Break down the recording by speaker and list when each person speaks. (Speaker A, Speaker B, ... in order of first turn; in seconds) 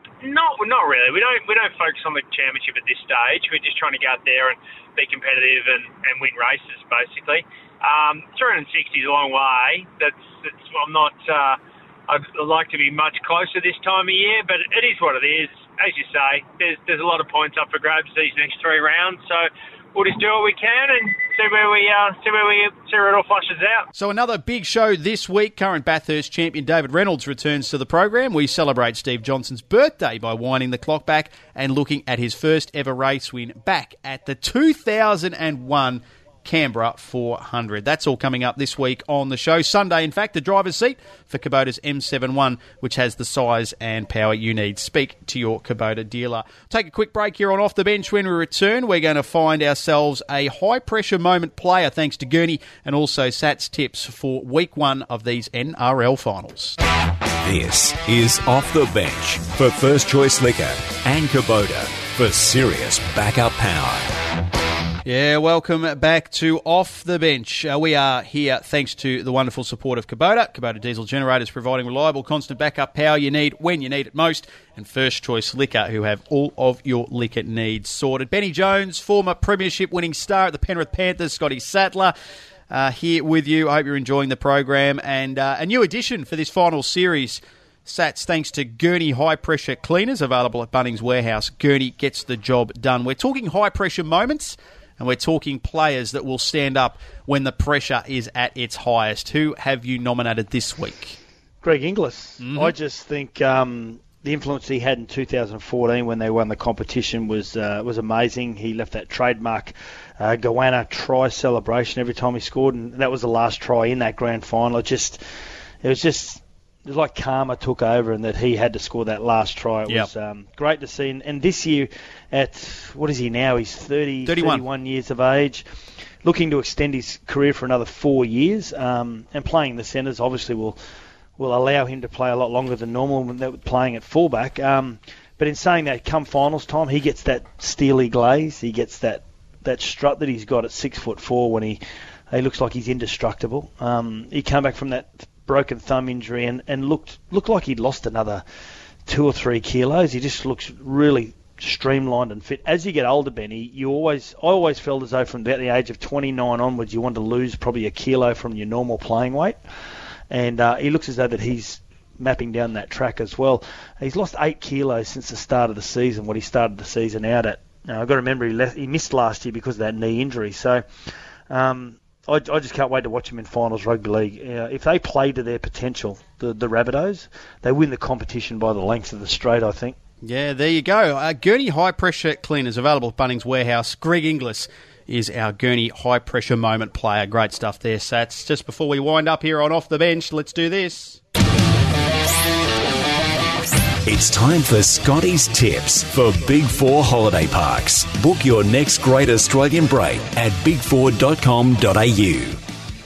Speaker A: 0.2-23.9
Speaker B: 23.9-56.8, 65.0-82.1, 82.7-101.2, 102.4-102.7, 124.3-124.7, 180.2-191.2
Speaker C: 57.4-64.1, 194.1-202.6
Speaker D: 101.6-115.2, 115.8-125.7, 126.2-130.8, 131.4-141.8, 142.3-148.4, 149.1-159.6, 160.3-180.0